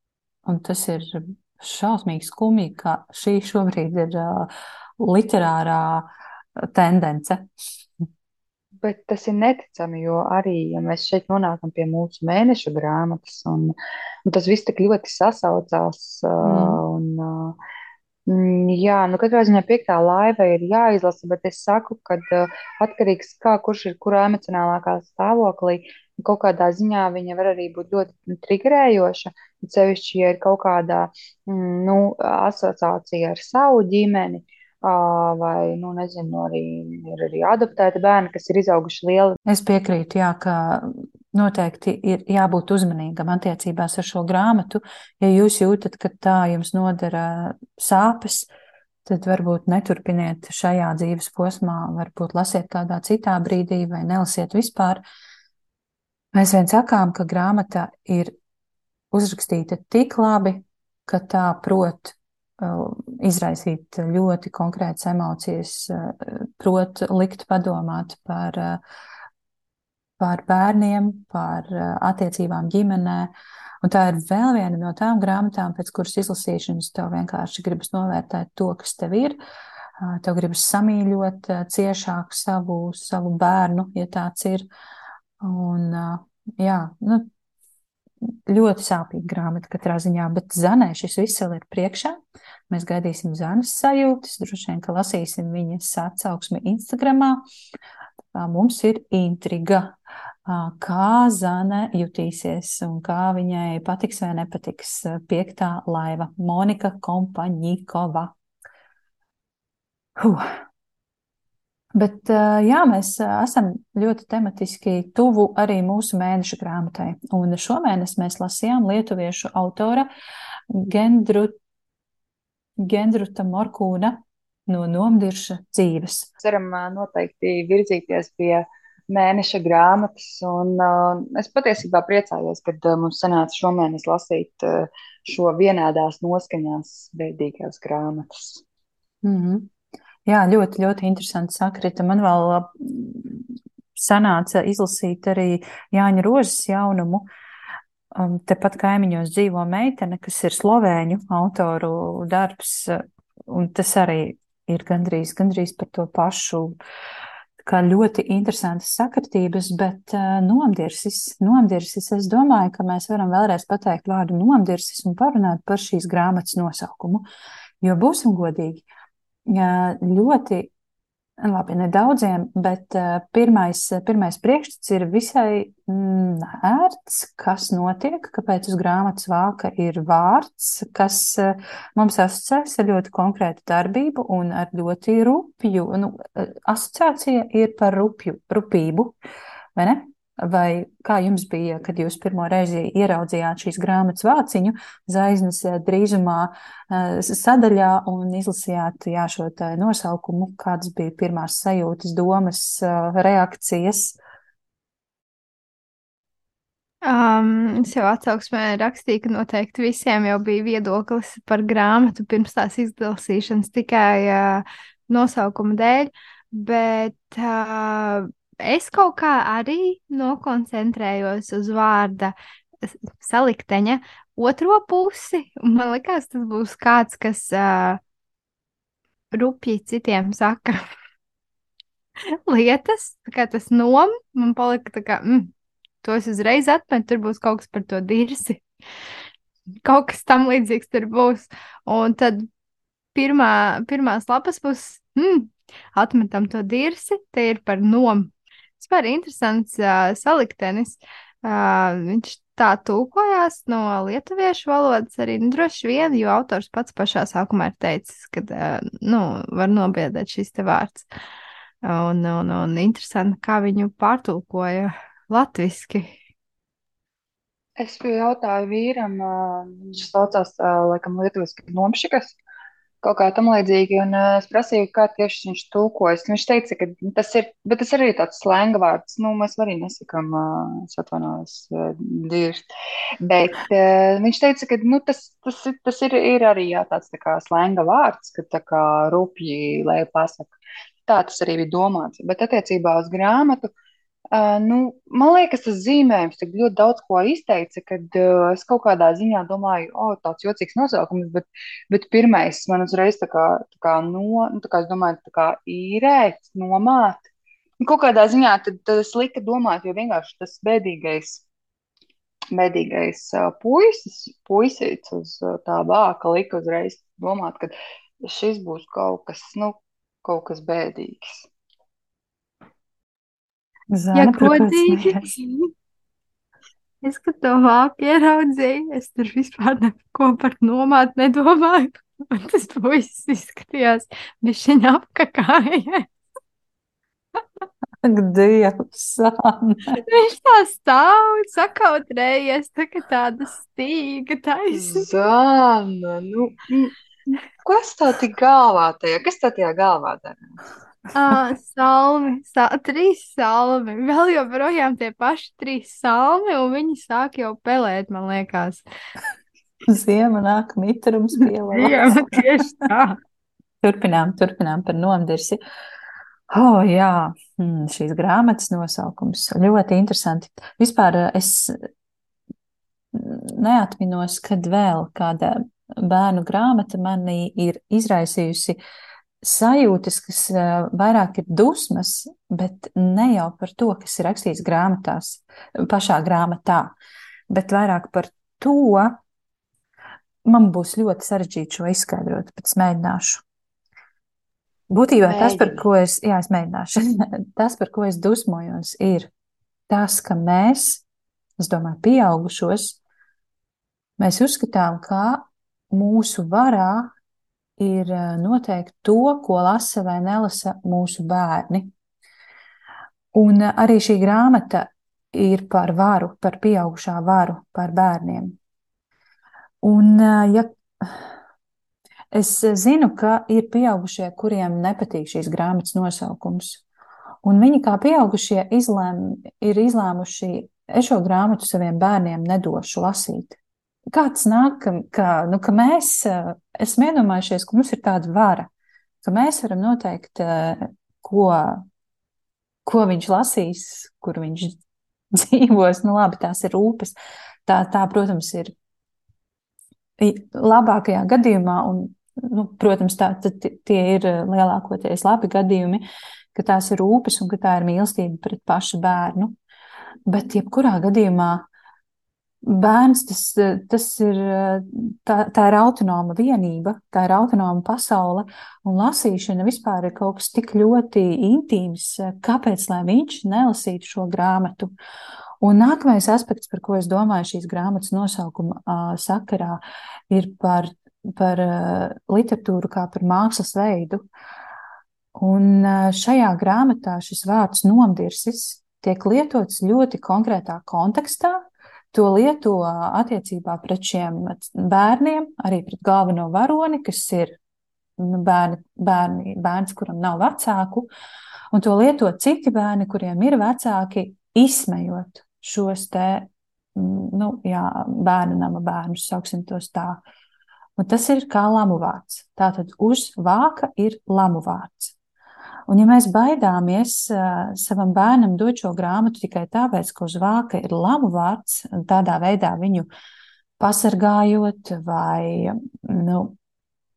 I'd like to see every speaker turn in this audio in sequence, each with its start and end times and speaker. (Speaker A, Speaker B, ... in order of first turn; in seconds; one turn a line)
Speaker A: 0.5-6.1
Speaker A: 6.7-7.4
Speaker B: 8.8-13.7
Speaker B: 14.2-17.6
Speaker A: 16.4-16.8
Speaker B: 18.3-39.4
Speaker A: 39.5-48.5
Speaker A: 49.0-55.0
Speaker A: 56.3-58.3
Speaker A: 59.1-68.8
Speaker A: 70.2-73.3
Speaker A: 73.8-79.3
Speaker A: 80.0-84.6
Speaker A: 85.4-87.3
Speaker A: 88.5-92.2
Speaker A: 92.7-97.4
Speaker A: 98.3-99.9
Speaker A: 100.5-108.3
Speaker A: 110.2-110.5
Speaker A: 111.9-120.1
Speaker A: 120.7-121.5
Speaker A: 122.8-126.3
Speaker B: 126.4-138.6
Speaker A: 139.2-139.7
Speaker A: 140.2-147.2
Speaker A: 148.2-156.7
Speaker A: 157.6-167.2
Speaker A: 167.8-168.8
Speaker A: 169.5-170.7
Speaker A: 171.4-189.1
Speaker A: 189.8-204.2
Speaker C: 207.0-228.0
Speaker C: 229.3-230.8
Speaker C: 232.3-235.5
Speaker C: 236.0-238.6
Speaker C: 239.8-242.5
Speaker C: 243.1-261.1
Speaker C: 261.8-266.2
Speaker B: 267.8-272.4
Speaker B: 273.0-282.6
Speaker B: 283.2-293.7
Speaker B: 294.3-307.2
Speaker B: 307.8-311.4
Speaker B: 312.5-317.7
Speaker B: 318.2-321.5
Speaker A: 323.9-325.3
Speaker C: 324.1-325.7
Speaker C: 327.0-336.1
Speaker A: 338.0-340.0
Speaker C: 339.9-345.1
Speaker B: 344.7-346.9
Speaker B: 347.6-350.4
Speaker C: 351.1-358.8
Speaker A: 359.9-362.6
Speaker C: 361.7-363.2
Speaker A: 363.8-365.6
Speaker A: 366.5-371.9
Speaker A: 373.1-378.8
Speaker A: 379.4-386.9
Speaker A: 387.5-389.2
Speaker A: 390.4-393.4
Speaker A: 394.9-399.3
Speaker B: 395.2-395.8
Speaker A: 399.9-401.0
Speaker A: 401.6-403.0
Speaker A: 404.2-407.1
Speaker A: 407.8-411.9
Speaker A: 413.3-418.6
Speaker A: 419.8-421.3
Speaker A: 422.3-426.8
Speaker A: 427.4-433.6
Speaker A: 434.1-438.7
Speaker A: 439.2-441.8
Speaker A: 442.8-444.7
Speaker A: 445.3-447.1
Speaker A: 447.6-448.7
Speaker A: 450.2-456.0
Speaker A: 456.5-459.5
Speaker A: 460.3-461.7
Speaker A: 462.6-474.9
Speaker A: 475.6-479.8
Speaker A: 480.3-484.2
Speaker A: 485.4-497.6
Speaker A: 498.2-501.1
Speaker A: 501.7-510.2
Speaker A: 511.0-515.1
Speaker A: 515.9-523.1
Speaker A: 523.8-526.5